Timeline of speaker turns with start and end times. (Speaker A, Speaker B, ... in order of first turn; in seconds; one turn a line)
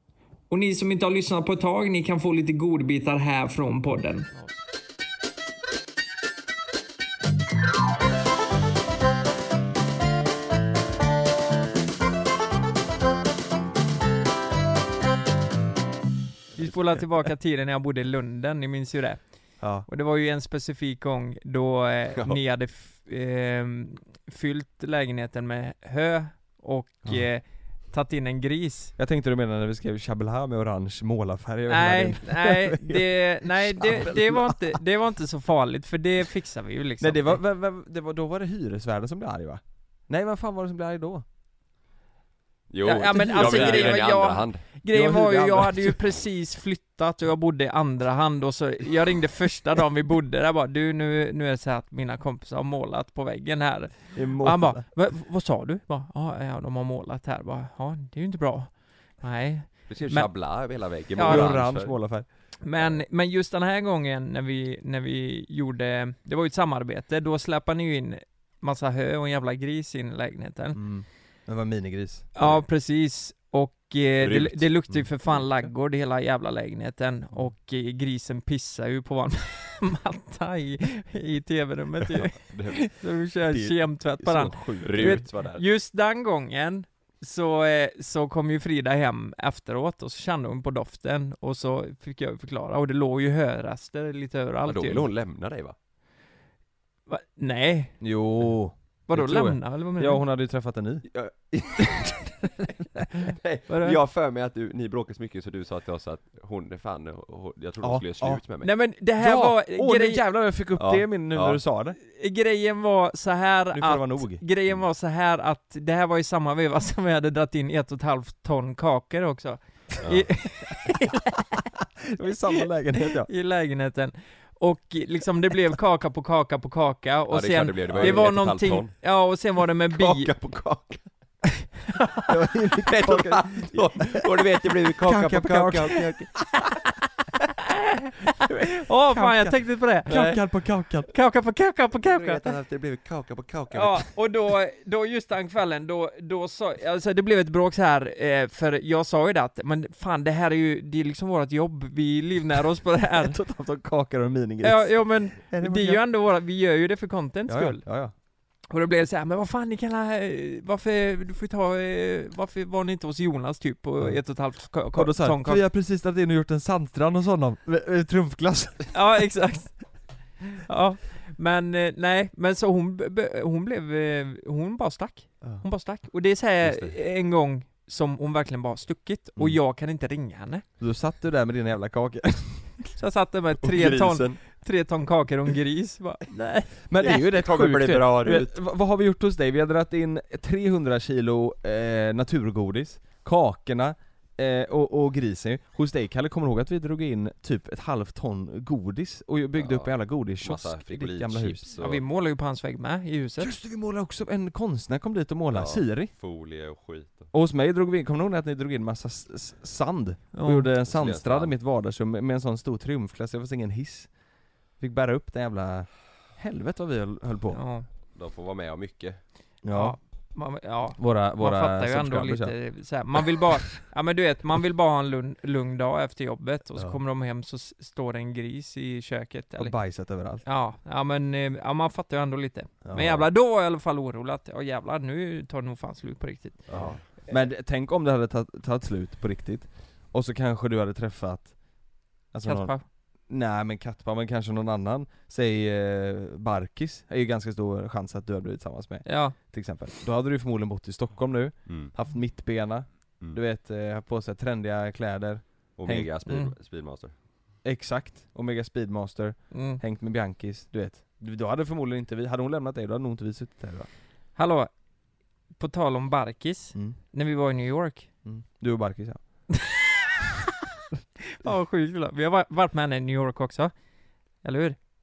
Speaker A: 0.5-4.6
Speaker A: 16.6-19.2
Speaker B: 19.6-19.9
Speaker A: 19.9-28.9
Speaker B: 29.0-34.7
Speaker A: 31.7-37.4
Speaker B: 37.0-41.2
Speaker C: 42.7-44.6
Speaker A: 42.8-60.3
Speaker B: 43.2-44.0
Speaker B: 44.9-46.0
Speaker B: 54.1-54.9
Speaker C: 59.9-62.0
Speaker A: 61.1-61.6
Speaker B: 61.2-62.3
Speaker A: 62.6-70.8
Speaker B: 70.8-72.3
Speaker A: 72.4-95.1
Speaker C: 74.2-75.1
Speaker C: 82.1-82.8
Speaker B: 83.5-85.3
Speaker C: 84.8-85.7
Speaker C: 94.7-95.8
Speaker A: 97.1-98.0
Speaker B: 98.0-101.1
Speaker A: 99.1-100.2
Speaker C: 101.1-102.4
Speaker C: 103.3-108.7
Speaker A: 103.7-104.0
Speaker B: 107.8-108.4
Speaker A: 108.6-110.2
Speaker B: 109.2-112.0
Speaker C: 110.8-111.6
Speaker A: 112.0-121.6
Speaker B: 113.7-114.4
Speaker C: 120.0-120.3
Speaker B: 122.1-123.3
Speaker A: 123.0-130.3
Speaker C: 127.3-128.9
Speaker B: 127.9-128.3
Speaker C: 129.9-131.1
Speaker A: 132.0-132.3
Speaker B: 132.3-134.3
Speaker C: 132.9-136.5
Speaker B: 135.0-136.3
Speaker A: 138.8-142.4
Speaker B: 139.1-141.1
Speaker C: 140.1-140.4
Speaker C: 142.0-144.1
Speaker A: 143.7-153.3
Speaker B: 153.1-156.0
Speaker A: 154.6-157.8
Speaker B: 157.5-158.1
Speaker A: 158.7-165.6
Speaker B: 164.9-169.1
Speaker A: 168.9-169.9
Speaker A: 170.4-180.6
Speaker C: 176.6-177.0
Speaker B: 180.8-182.7
Speaker A: 183.0-186.7
Speaker C: 183.6-184.4
Speaker B: 186.9-201.6
Speaker C: 187.0-188.5
Speaker C: 199.6-202.0
Speaker A: 201.8-203.5
Speaker B: 203.4-206.1
Speaker C: 205.5-207.3
Speaker B: 207.3-214.1
Speaker A: 210.3-210.7
Speaker C: 210.8-211.5
Speaker B: 214.8-217.6
Speaker A: 217.5-217.9
Speaker C: 218.2-219.2
Speaker B: 219.6-220.0
Speaker A: 219.7-229.7
Speaker B: 221.0-222.6
Speaker B: 229.6-230.4
Speaker A: 230.4-236.8
Speaker B: 232.8-233.3
Speaker C: 236.7-237.0
Speaker B: 236.7-241.6
Speaker B: 242.3-242.8
Speaker A: 242.4-242.8
Speaker B: 243.3-256.1
Speaker A: 249.1-249.3
Speaker C: 255.8-257.1
Speaker A: 256.3-256.5
Speaker B: 257.6-263.9
Speaker A: 259.5-259.8
Speaker A: 264.4-264.7
Speaker A: 265.6-268.1
Speaker B: 268.2-269.2
Speaker A: 271.3-273.7
Speaker A: 274.4-274.8